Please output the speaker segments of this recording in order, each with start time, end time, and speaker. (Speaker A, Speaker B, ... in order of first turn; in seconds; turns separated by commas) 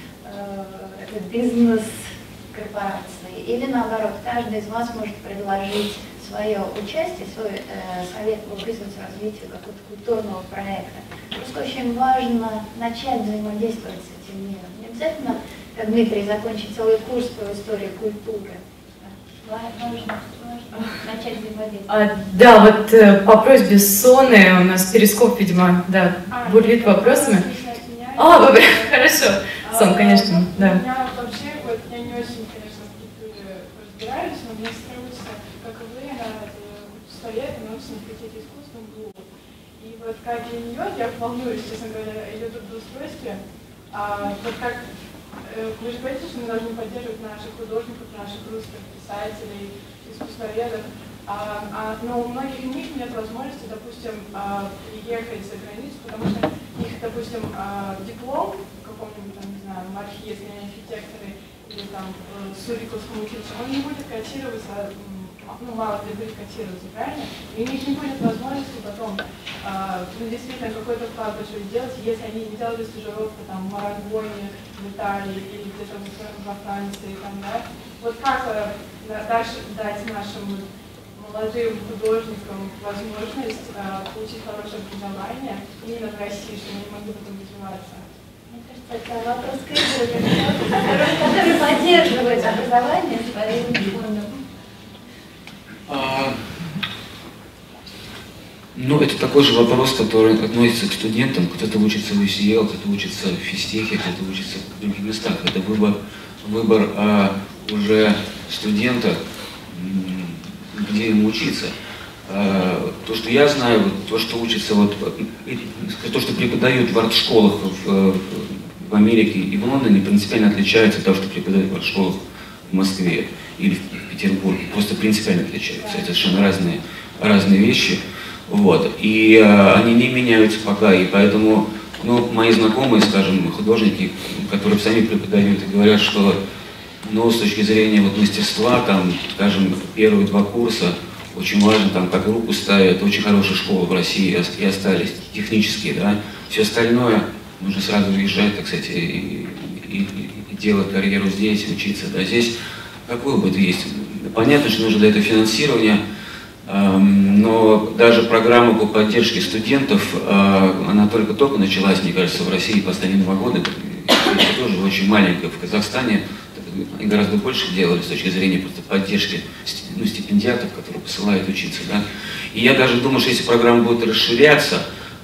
Speaker A: 0.2-21.9, Speaker B: 21.9-27.4, Speaker C: 26.3-29.0, Speaker B: 28.1-30.8, Speaker C: 29.6-43.4, Speaker C: 43.9-44.8, Speaker C: 45.4-88.1, Speaker A: 88.5-94.4, Speaker D: 95.9-96.4, Speaker D: 98.7-111.7, Speaker D: 112.2-122.2, Speaker D: 122.7-136.4, Speaker D: 137.0-152.5, Speaker D: 153.1-156.0, Speaker D: 156.6-174.8